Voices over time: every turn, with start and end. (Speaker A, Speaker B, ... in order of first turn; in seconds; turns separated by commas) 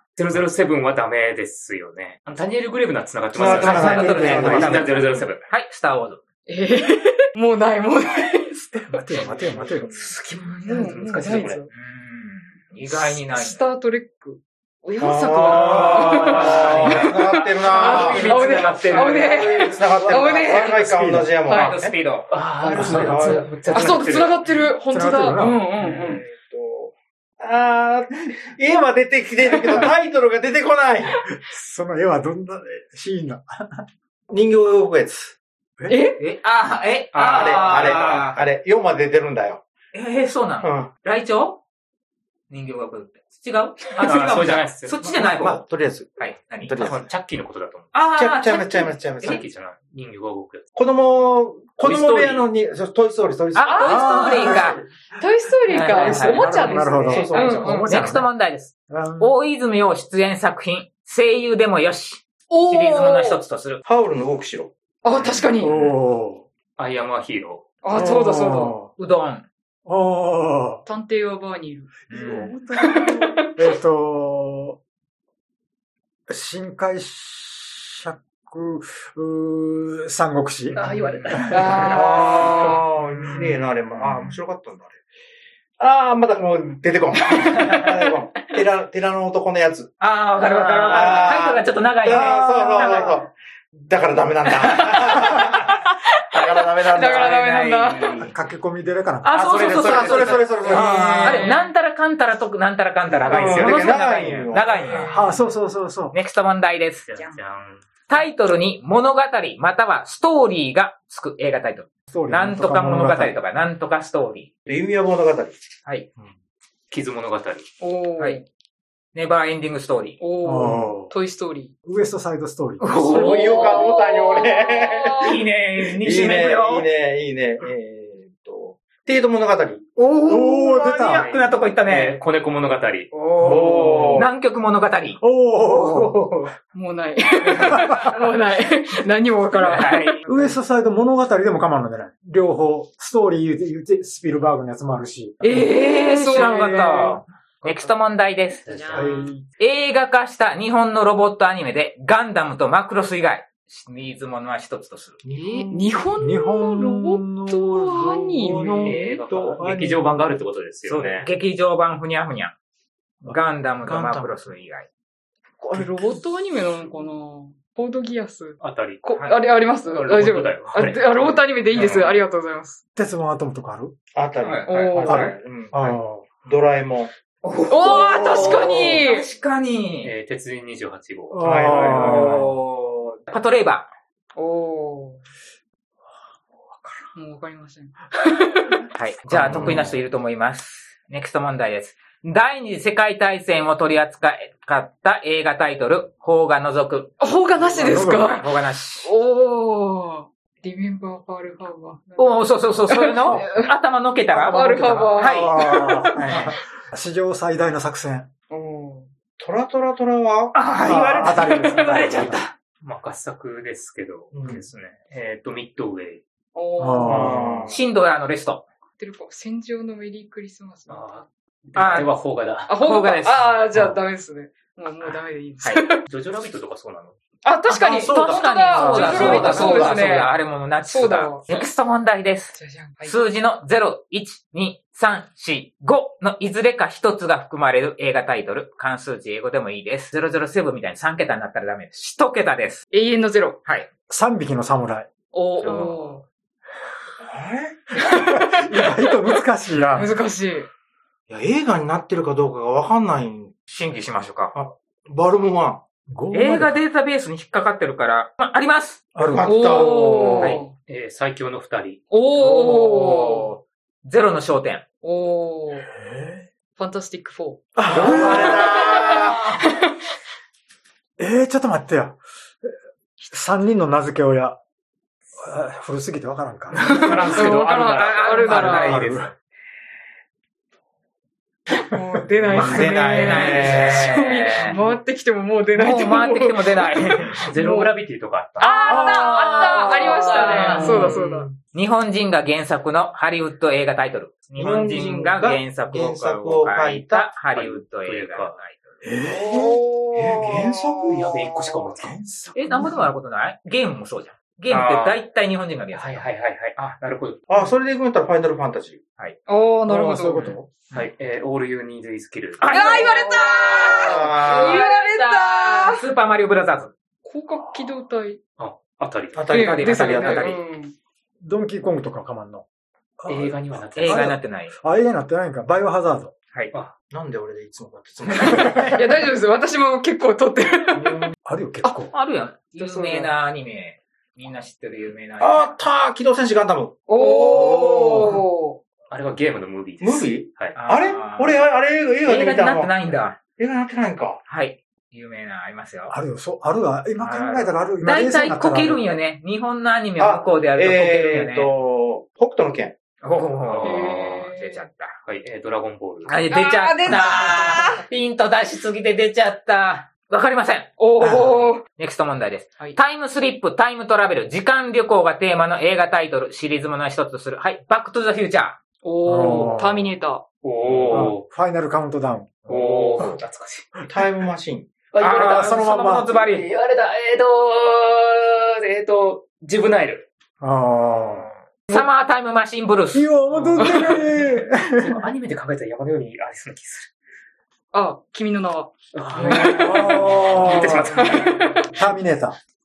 Speaker A: 0.2-5.4, Speaker B: 3.3-5.0, Speaker C: 3.4-4.8, Speaker D: 3.5-6.2, Speaker E: 6.5-9.2, Speaker C: 8.8-10.1, Speaker B: 9.2-10.2, Speaker D: 10.0-11.0, Speaker E: 10.6-11.7, Speaker A: 10.7-11.6, Speaker D: 11.7-13.6, Speaker E: 12.9-20.8, Speaker B: 15.0-21.9, Speaker D: 16.2-17.1, Speaker A: 16.5-16.9, Speaker D: 17.7-19.5, Speaker A: 18.2-19.1, Speaker C: 19.8-21.3, Speaker E: 21.4-21.8, Speaker D: 21.5-22.3, Speaker A: 22.3-24.7, Speaker B: 22.6-24.0, Speaker C: 22.8-23.5, Speaker E: 23.7-26.2, Speaker C: 24.9-25.6, Speaker A: 25.8-26.2, Speaker B: 25.9-31.2, Speaker E: 29.5-29.9, Speaker C: 31.4-33.9, Speaker B: 34.3-35.4, Speaker E: 35.9-36.2, Speaker D: 36.2-38.5, Speaker A: 37.1-38.0, Speaker B: 37.3-39.6, Speaker D: 39.9-41.6, Speaker B: 40.6-40.9, Speaker D: 42.5-45.6, Speaker A: 44.0-45.0, Speaker B: 45.0-47.1, Speaker D: 46.2-46.8, Speaker A: 46.8-47.9, Speaker D: 47.9-49.4, Speaker B: 48.1-49.5, Speaker A: 49.2-50.6, Speaker B: 50.8-54.7, Speaker A: 51.8-52.5, Speaker D: 53.5-54.8, Speaker E: 53.6-58.2, Speaker C: 53.9-54.7, Speaker D: 55.7-56.4, Speaker C: 55.9-58.3, Speaker B: 57.1-57.7, Speaker D: 57.1-63.8, Speaker C: 58.9-59.3, Speaker E: 62.5-63.4, Speaker B: 63.9-64.7, Speaker E: 65.0-65.8, Speaker C: 65.6-66.5, Speaker A: 66.8-67.7, Speaker E: 67.8-68.8, Speaker C: 67.9-68.9, Speaker D: 69.0-69.5, Speaker C: 69.9-70.8, Speaker E: 70.9-72.0, Speaker D: 72.1-72.5, Speaker C: 72.1-74.8, Speaker E: 72.7-73.6, Speaker C: 76.3-82.6, Speaker A: 80.7-81.7, Speaker D: 80.8-81.3, Speaker E: 81.5-82.8, Speaker B: 81.9-85.0, Speaker C: 83.2-83.6, Speaker B: 85.8-89.9, Speaker D: 90.0-93.2, Speaker B: 90.6-95.7, Speaker C: 92.0-93.2, Speaker E: 94.7-95.2, Speaker E: 95.8-98.3, Speaker B: 96.3-97.4, Speaker D: 97.0-98.3, Speaker C: 98.2-101.5, Speaker D: 99.2-105.2, Speaker A: 99.3-100.4, Speaker B: 99.5-101.4, Speaker E: 100.5-101.7, Speaker B: 103.2-105.0, Speaker C: 103.5-103.8, Speaker E: 104.8-105.4, Speaker C: 105.0-106.2, Speaker D: 106.1-107.1, Speaker A: 107.1-107.8, Speaker D: 108.1-114.5, Speaker C: 112.1-113.4, Speaker B: 114.7-115.6, Speaker A: 116.9-117.7, Speaker E: 117.8-118.5, Speaker D: 119.1-120.2, Speaker E: 120.2-121.7, Speaker C: 120.4-121.1, Speaker C: 121.9-123.0, Speaker D: 122.8-123.9, Speaker B: 123.0-130.0, Speaker E: 123.0-125.4, Speaker D: 125.2-126.9, Speaker D: 130.0-132.2, Speaker C: 130.3-131.2, Speaker A: 131.2-133.1, Speaker D: 133.1-136.3, Speaker B: 133.4-134.3, Speaker C: 133.8-134.2, Speaker C: 135.2-136.4, Speaker E: 136.7-140.6, Speaker D: 139.6-140.2, Speaker C: 140.3-145.6, Speaker E: 145.4-147.2, Speaker D: 145.5-148.7, Speaker A: 148.7-149.2, Speaker E: 148.9-149.2, Speaker C: 148.9-149.4, Speaker D: 149.6-155.2, Speaker B: 155.2-155.9, Speaker E: 155.4-159.2, Speaker C: 156.2-160.2, Speaker A: 158.8-161.3, Speaker D: 160.9-162.6, Speaker D: 163.3-164.9, Speaker B: 163.8-164.4, Speaker E: 165.6-172.8, Speaker A: 168.6-169.0, Speaker A: 169.8-172.1, Speaker C: 173.0-174.0, Speaker B: 174.1-177.1, Speaker D: 174.4-175.3, Speaker E: 174.7-175.3, Speaker C: 175.0-176.3, Speaker D: 177.4-180.1, Speaker E: 177.7-179.3, Speaker A: 180.0-181.4, Speaker C: 181.3-182.5, Speaker B: 181.4-183.2, Speaker D: 181.9-182.7, Speaker D: 183.3-183.9, Speaker E: 184.4-185.2, Speaker E: 187.1-188.8, Speaker D: 188.9-197.1, Speaker C: 189.3-189.8, Speaker B: 189.3-190.0, Speaker E: 197.2-198.5, Speaker C: 197.7-198.4, Speaker D: 197.7-199.1, Speaker E: 199.0-203.7, Speaker D: 202.2-205.7, Speaker E: 204.3-206.3, Speaker C: 204.4-208.3, Speaker E: 208.5-209.1, Speaker B: 209.4-210.6, Speaker D: 210.5-212.5, Speaker C: 210.8-212.5, Speaker E: 211.3-212.4, Speaker A: 212.8-216.2, Speaker B: 214.3-214.7, Speaker E: 216.6-217.3, Speaker C: 216.8-217.6, Speaker A: 217.1-217.6, Speaker B: 217.1-217.8, Speaker D: 217.7-218.7, Speaker E: 219.0-221.3, Speaker A: 220.9-222.8, Speaker D: 221.8-222.1, Speaker E: 222.7-226.1, Speaker D: 222.8-223.6, Speaker A: 226.1-227.2, Speaker E: 227.4-231.7, Speaker D: 227.7-242.8, Speaker C: 228.1-230.0, Speaker A: 229.2-229.5, Speaker E: 232.5-233.3, Speaker E: 242.9-243.6, Speaker C: 244.1-245.1, Speaker E: 245.3-246.2, Speaker D: 245.6-246.0, Speaker B: 247.3-247.9, Speaker E: 247.9-249.0, Speaker C: 248.2-250.2, Speaker E: 249.9-250.7, Speaker B: 251.3-253.6, Speaker D: 253.7-254.6, Speaker B: 254.5-255.8, Speaker C: 256.1-256.8, Speaker D: 256.3-259.4, Speaker C: 259.1-259.6, Speaker B: 259.3-260.6, Speaker E: 259.4-260.7, Speaker D: 260.4-260.6, Speaker A: 260.9-262.0, Speaker E: 262.1-263.6, Speaker D: 262.4-264.8, Speaker E: 265.0-265.9, Speaker C: 265.9-266.5, Speaker E: 266.8-270.0, Speaker C: 267.8-268.8, Speaker B: 267.9-269.5, Speaker C: 271.2-272.7, Speaker C: 273.2-274.6, Speaker C: 275.4-276.8, Speaker A: 276.7-279.3, Speaker E: 276.8-279.0, Speaker D: 277.9-279.1, Speaker C: 278.5-279.3, Speaker E: 281.7-287.9, Speaker C: 282.4-282.9, Speaker B: 282.5-284.2, Speaker D: 282.6-284.8, Speaker D: 285.8-287.4, Speaker A: 287.4-288.7, Speaker E: 288.6-291.5, Speaker D: 288.6-291.2, Speaker C: 288.9-289.3, Speaker C: 289.9-291.3, Speaker B: 290.8-291.4, Speaker D: 291.7-298.9, Speaker B: 294.6-297.3, Speaker A: 297.5-298.6, Speaker C: 299.0-299.8, Speaker E: 299.4-300.9, Speaker B: 300.2-301.3, Speaker C: 300.4-303.1, Speaker A: 301.0-302.2, Speaker D: 302.5-306.9, Speaker A: 304.7-305.3, Speaker A: 305.9-307.4, Speaker B: 307.5-309.0, Speaker E: 309.5-310.6, Speaker C: 309.9-310.7, Speaker A: 310.9-312.6, Speaker D: 312.6-316.9, Speaker E: 312.7-316.0, Speaker B: 313.9-314.9, Speaker E: 317.2-318.4, Speaker A: 318.6-319.9, Speaker B: 319.3-320.6, Speaker E: 319.5-320.9, Speaker D: 319.5-320.6, Speaker C: 321.4-322.6, Speaker C: 323.2-326.3, Speaker A: 323.3-324.4, Speaker D: 324.0-324.7, Speaker B: 327.1-329.0, Speaker E: 328.4-331.3, Speaker B: 331.0-331.3, Speaker C: 331.4-332.1, Speaker D: 332.1-335.8, Speaker E: 332.7-333.4, Speaker B: 335.4-338.3, Speaker E: 337.1-338.8, Speaker A: 339.1-340.8, Speaker B: 340.0-342.9, Speaker D: 340.8-341.6, Speaker D: 342.2-343.4, Speaker B: 343.6-344.4, Speaker D: 344.5-346.1, Speaker C: 346.1-349.0, Speaker D: 347.2-351.7, Speaker B: 350.2-353.0, Speaker D: 353.2-355.2, Speaker A: 353.7-354.3, Speaker E: 353.8-354.9, Speaker A: 355.3-356.3, Speaker D: 356.3-360.9, Speaker E: 356.5-358.0, Speaker E: 361.0-361.8, Speaker C: 361.2-361.5, Speaker D: 361.9-368.8, Speaker E: 369.0-370.5, Speaker C: 369.2-370.1, Speaker A: 370.6-371.4, Speaker C: 371.1-372.7, Speaker A: 372.7-374.0, Speaker B: 372.7-373.0, Speaker B: 374.1-374.9, Speaker A: 375.1-380.3, Speaker D: 375.2-376.7, Speaker C: 375.4-376.4, Speaker C: 380.6-381.5, Speaker D: 381.9-383.3, Speaker C: 383.1-385.2, Speaker A: 383.5-384.4, Speaker A: 385.0-387.1, Speaker E: 387.9-390.3, Speaker A: 389.1-392.2, Speaker C: 389.4-391.3, Speaker E: 391.0-391.8, Speaker C: 391.9-392.6